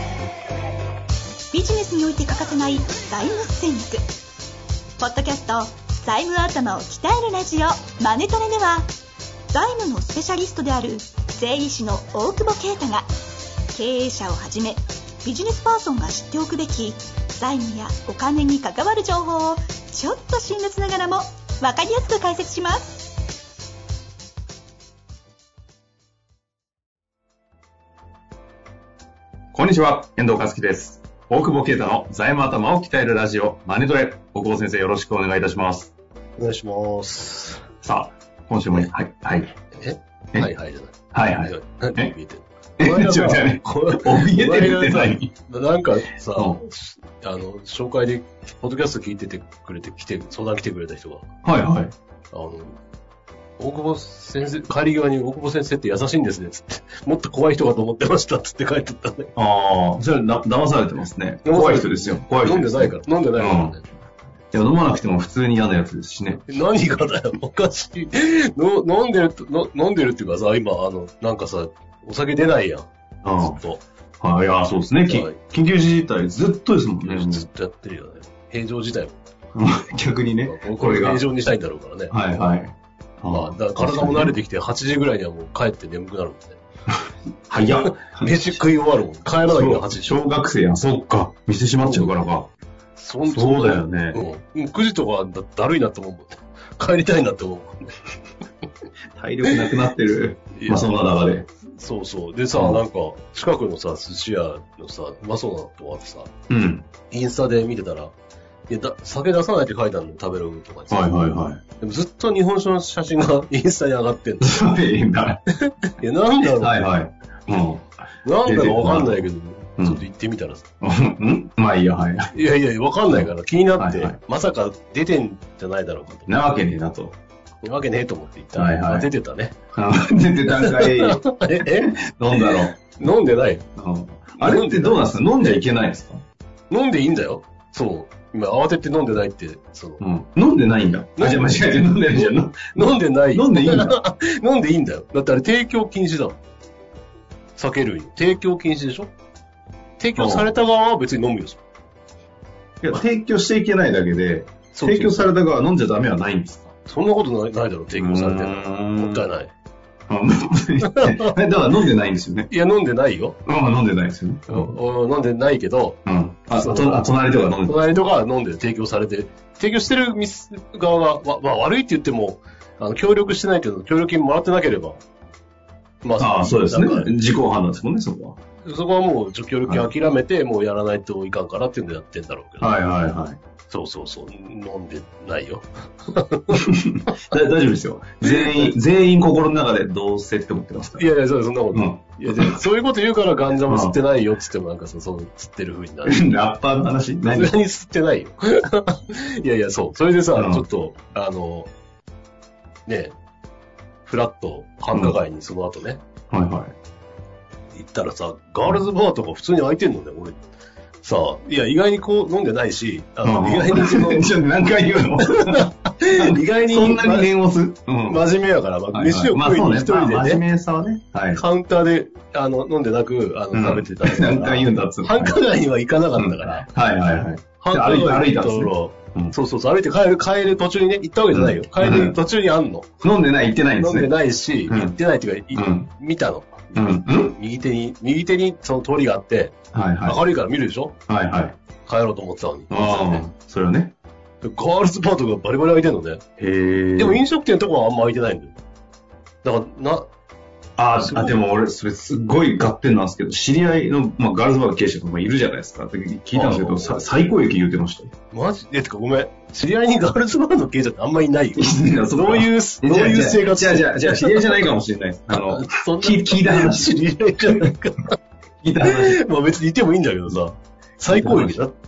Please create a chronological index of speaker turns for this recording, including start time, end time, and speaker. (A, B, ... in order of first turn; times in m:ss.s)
0:01.5-0:04.0 A
0:05.0-0:08.9 A
0:09.5-0:13.1 A
0:13.7-0:23.2 A
0:29.5-0:35.9 B
0:36.4-0:37.6 C
0:37.8-0:39.5 B
0:39.7-0:51.2 C
0:41.1-0:42.1 B
0:42.8-0:45.3 B
0:46.4-0:46.6 B
0:51.4-0:51.9 B
0:52.3-0:52.8 C
0:53.6-0:59.3 C
0:59.4-1:03.8 B
1:01.4-1:03.8 C
1:04.5-1:06.4 B
1:06.4-1:13.8 C
1:13.2-1:13.6 B
1:14.2-1:17.5 B
1:15.0-1:15.4 C
1:17.0-1:19.2 C
1:19.5-1:21.2 B
1:20.4-1:22.2 C
1:22.1-1:24.4 B
1:23.2-1:26.6 C
1:27.5-1:28.6 B
1:27.6-1:30.2 C
1:29.4-1:32.5 B
1:31.8-1:32.1 C
1:33.0-1:38.0 C
1:33.3-1:34.2 B
1:39.1-1:41.5 B
1:39.4-1:39.7 C
1:40.5-1:40.9 C
1:41.8-1:46.3 C
1:42.5-1:42.8 B
1:46.5-1:46.9 B
1:47.1-1:48.1 C
1:48.7-1:51.1 C
1:50.9-1:51.6 B
1:51.8-1:54.6 C
1:54.4-1:55.4 B
1:55.6-1:56.9 C
1:56.4-2:00.0 B
1:58.2-2:00.6 C
2:00.8-2:02.3 B
2:02.3-2:06.3 C
2:03.1-2:04.2 B
2:06.3-2:07.2 B
2:07.6-2:09.6 C
2:08.5-2:09.1 B
2:09.7-2:12.8 B
2:10.5-2:13.6 C
2:13.8-2:16.2 B
2:14.4-2:15.6 C
2:16.7-2:20.0 C
2:20.0-2:24.0 B
2:21.2-2:26.4 C
2:27.6-2:29.1 C
2:30.0-2:31.6 C
2:30.2-2:30.5 B
2:32.8-2:36.6 B
2:34.7-2:35.3 C
2:36.8-2:39.5 C
2:37.9-2:39.2 B
2:40.1-2:42.5 B
2:40.8-2:41.4 C
2:42.5-2:43.4 C
2:43.4-2:44.7 B
2:44.5-2:46.0 C
2:46.0-2:47.9 B
2:46.5-2:47.1 C
2:47.6-2:55.0 C
2:56.0-2:57.1 C
2:56.2-2:58.4 B
2:58.6-3:02.7 C
2:59.6-2:59.9 B
3:02.6-3:03.4 B
3:03.7-3:06.7 C
3:06.5-3:11.1 B
3:08.2-3:08.8 C
3:11.0-3:16.3 C
3:11.7-3:12.5 B
3:13.7-3:14.0 B
3:16.0-3:17.6 B
3:17.2-3:21.7 C
3:20.3-3:20.6 B
3:22.8-3:23.1 C
3:24.0-3:26.0 C
3:26.3-3:26.7 B
3:27.7-3:30.4 C
3:31.0-3:34.3 C
3:33.2-3:38.2 B
3:35.2-3:37.3 C
3:38.0-3:40.4 C
3:38.9-3:41.4 B
3:41.3-3:46.7 C
3:43.5-3:45.4 B
3:46.1-3:49.3 B
3:47.6-3:52.9 C
3:51.3-3:52.2 B
3:53.0-3:54.1 B
3:53.7-4:00.9 C
3:54.7-3:55.0 B
3:55.5-3:55.9 B
3:56.7-3:57.3 B
3:59.7-4:00.2 B
4:01.1-4:01.6 B
4:01.8-4:03.2 C
4:02.7-4:03.9 B
4:04.4-4:06.2 C
4:06.4-4:07.2 B
4:07.0-4:08.5 C
4:09.4-4:10.1 C
4:10.8-4:18.1 B
4:10.9-4:11.4 C
4:16.3-4:17.2 C
4:18.3-4:24.7 C
4:21.6-4:27.7 B
4:25.3-4:28.2 C
4:28.6-4:29.2 B
4:28.8-4:31.8 C
4:31.1-4:31.6 B